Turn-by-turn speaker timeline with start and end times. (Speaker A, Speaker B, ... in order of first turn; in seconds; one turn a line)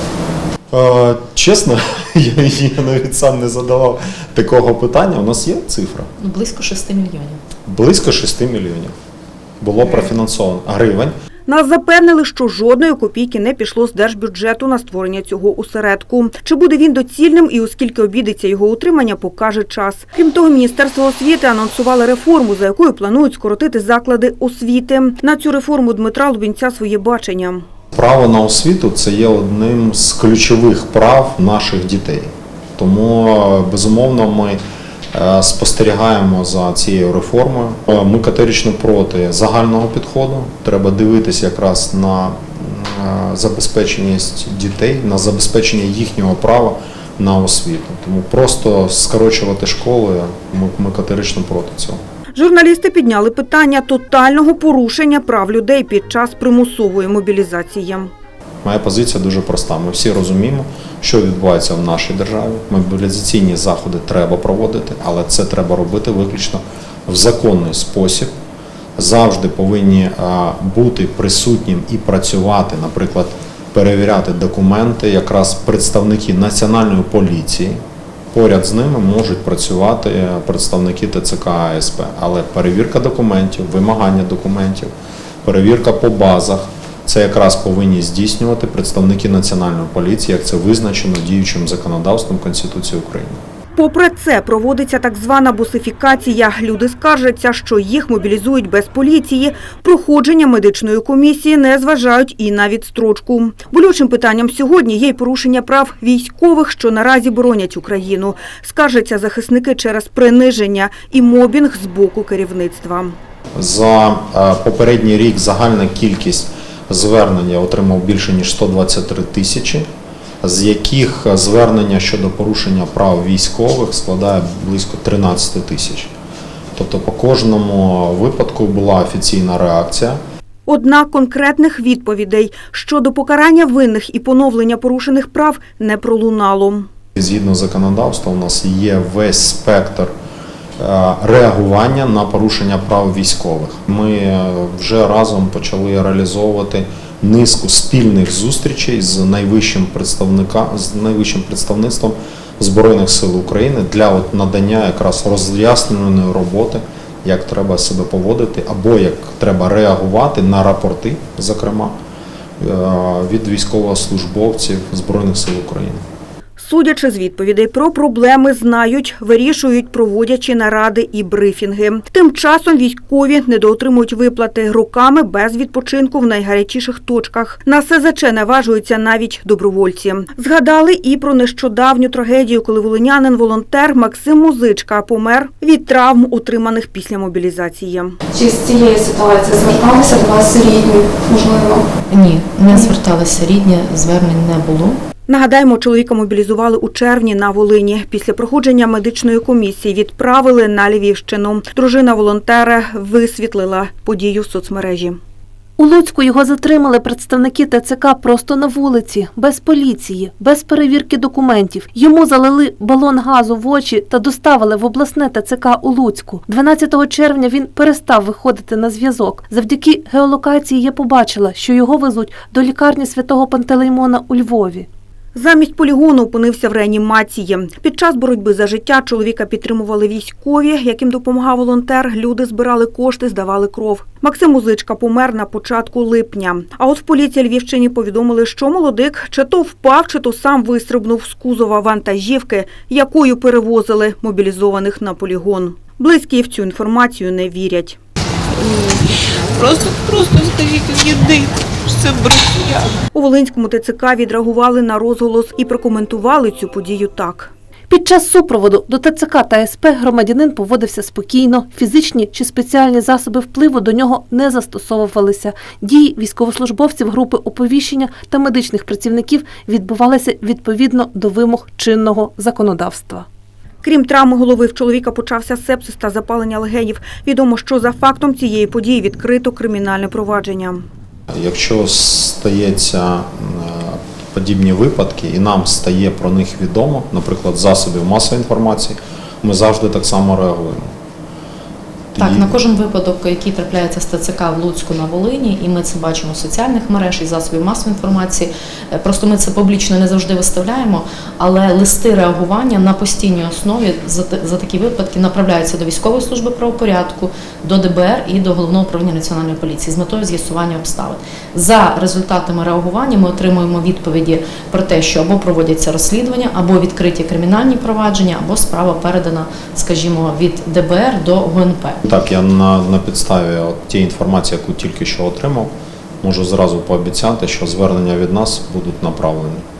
Speaker A: 0.7-6.1
Speaker B: 6.2-7.4
Speaker A: 7.7-8.9
Speaker A: 9.6-11.1
Speaker C: 11.5-27.6
Speaker A: 27.9-34.6
Speaker A: 35.1-52.0
Speaker C: 52.4-58.1
Speaker A: 58.6-68.3
Speaker A: 69.0-77.8
Speaker A: 78.3-84.9
Speaker A: 85.4-93.4
Speaker C: 93.8-113.1
Speaker A: 113.5-119.8
Speaker A: 120.4-126.1
Speaker A: 126.8-130.2
Speaker C: 130.7-136.9
Speaker A: 137.2-140.1
Speaker A: 140.8-161.9
Speaker A: 162.6-166.0
Speaker C: 166.6-188.2
Speaker D: 188.3-191.9
Speaker B: 192.1-195.0
Speaker D: 192.7-192.9
Speaker C: 195.3-205.2
Speaker E: 205.8-224.9
Speaker C: 225.3-248.0
Speaker F: 248.5-253.0
Speaker C: 253.1-257.5
Speaker E: 257.9-273.2
Speaker C: 273.8-280.8
Speaker A: 281.3-290.9
Speaker A: 292.1-292.6
Speaker B: 292.2-322.0
Speaker A: 322.1-325.7
Speaker A: 326.2-329.6